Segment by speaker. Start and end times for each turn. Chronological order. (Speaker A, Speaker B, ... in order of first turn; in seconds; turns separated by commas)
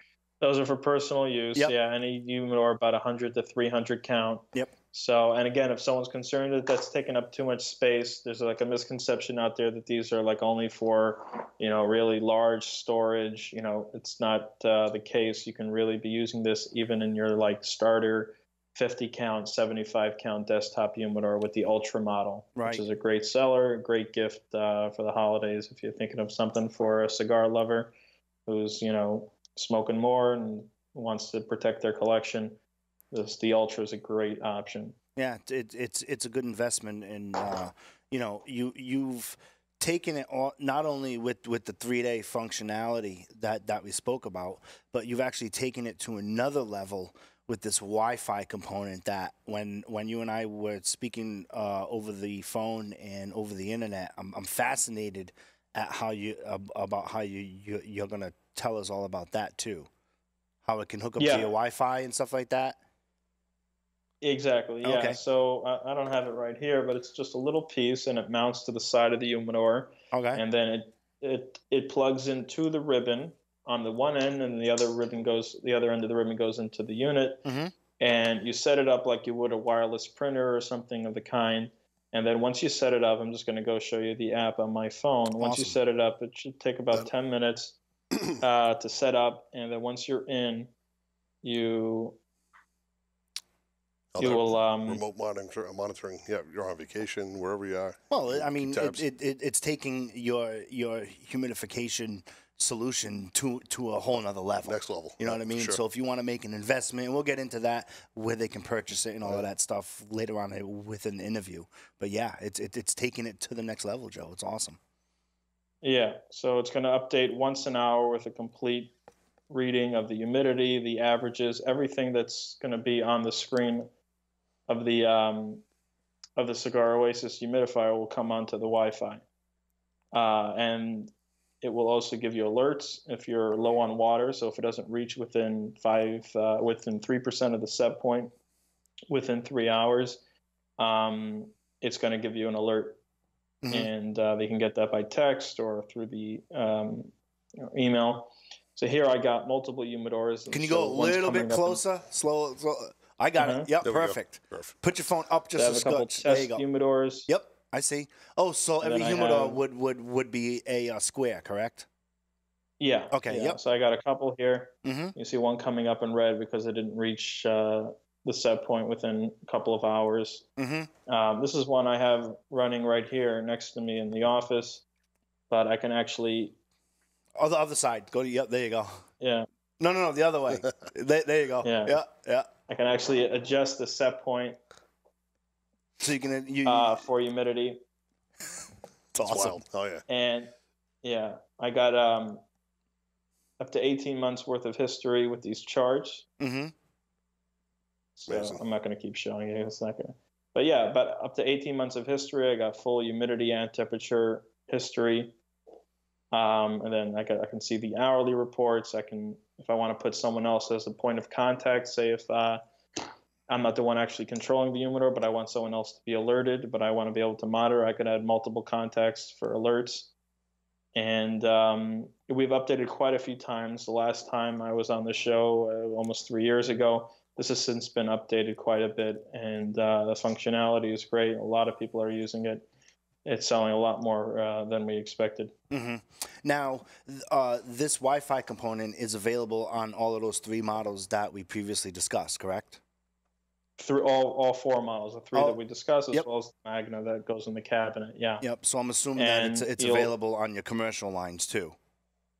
Speaker A: 0.4-27.9, Speaker B: 22.6-22.8, Speaker A: 28.5-32.6, Speaker A: 33.1-35.0, Speaker B: 35.2-59.9, Speaker B: 60.6-62.8, Speaker A: 61.2-61.5, Speaker A: 64.2-77.5, Speaker B: 64.8-65.2, Speaker B: 70.1-70.4, Speaker B: 77.5-77.7, Speaker A: 78.0-87.8, Speaker B: 85.4-85.8, Speaker A: 88.4-90.7, Speaker A: 91.4-92.2, Speaker C: 94.1-99.0, Speaker A: 94.2-95.0, Speaker B: 98.1-114.8, Speaker C: 104.7-105.8, Speaker A: 115.8-118.9, Speaker A: 119.5-123.9, Speaker A: 124.7-125.6, Speaker A: 126.4-129.2, Speaker A: 130.1-131.1, Speaker A: 131.6-138.3, Speaker A: 139.1-140.2, Speaker A: 140.8-143.0, Speaker B: 143.6-143.9, Speaker A: 143.7-151.8, Speaker B: 150.5-156.7, Speaker A: 153.4-153.7, Speaker C: 153.8-154.7, Speaker A: 155.6-157.3, Speaker B: 157.3-161.9, Speaker A: 158.8-159.6, Speaker A: 162.8-170.5, Speaker B: 163.1-163.6, Speaker B: 164.8-165.2, Speaker B: 170.6-170.9, Speaker A: 171.1-174.8, Speaker A: 175.5-176.6, Speaker B: 177.4-179.1, Speaker A: 179.2-179.5, Speaker B: 179.8-182.5, Speaker A: 181.6-182.0, Speaker A: 182.7-184.6, Speaker B: 186.0-187.0, Speaker A: 186.7-187.8, Speaker B: 189.2-189.6, Speaker C: 189.2-190.0, Speaker A: 190.1-190.5, Speaker A: 191.0-192.4, Speaker A: 193.6-196.3, Speaker B: 196.4-196.7, Speaker A: 198.2-205.4, Speaker C: 198.3-198.6, Speaker A: 206.3-220.1, Speaker A: 220.9-232.7, Speaker A: 233.2-235.5, Speaker B: 235.7-242.8, Speaker A: 243.8-248.4, Speaker B: 245.3-245.6, Speaker B: 248.4-251.8, Speaker A: 249.2-250.1